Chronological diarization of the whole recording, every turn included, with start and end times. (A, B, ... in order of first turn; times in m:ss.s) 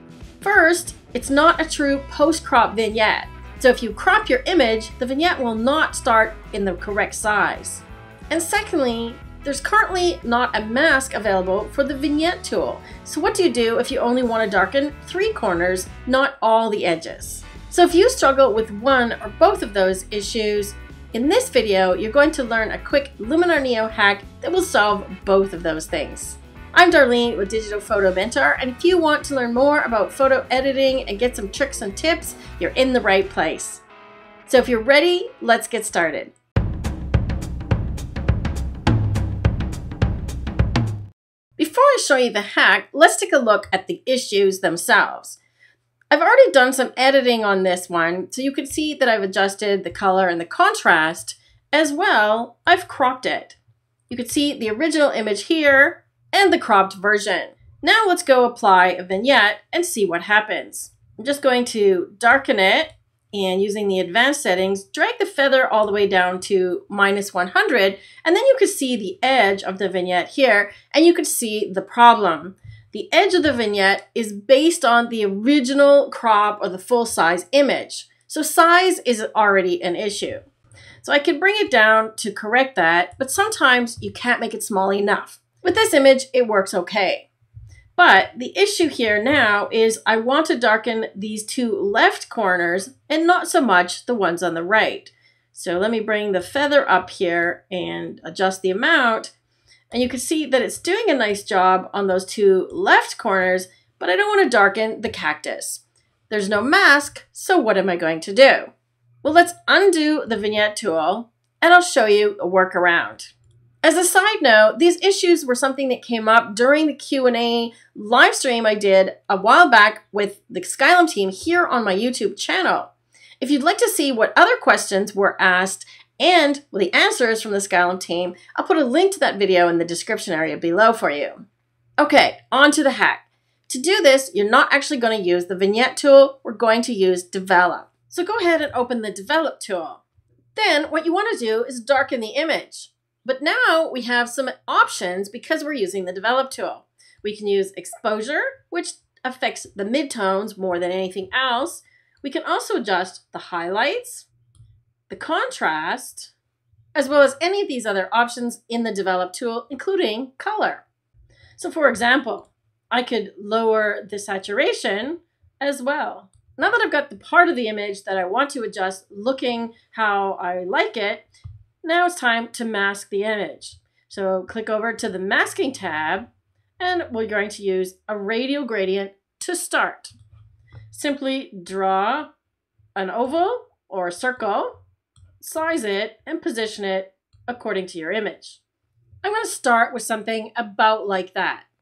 0:00.4-0:33.8 A
0:34.5-0:36.3 A
0:41.6-0:45.4 A
0:46.1-0:53.6 A
0:54.1-1:20.4 A
1:21.0-1:27.3 A
1:28.0-1:39.3 A
1:39.9-1:48.7 A
1:49.2-1:53.3 A
1:53.8-2:11.4 A
2:12.0-2:20.0 A
2:20.6-2:34.3 A
2:35.1-2:36.3 A
2:37.0-2:40.8 A
2:41.6-2:51.3 A
2:51.8-2:56.3 A
2:56.8-3:00.1 A
3:00.9-3:02.3 A
3:03.0-3:04.8 A
3:05.4-3:08.6 A
3:09.2-3:11.7 A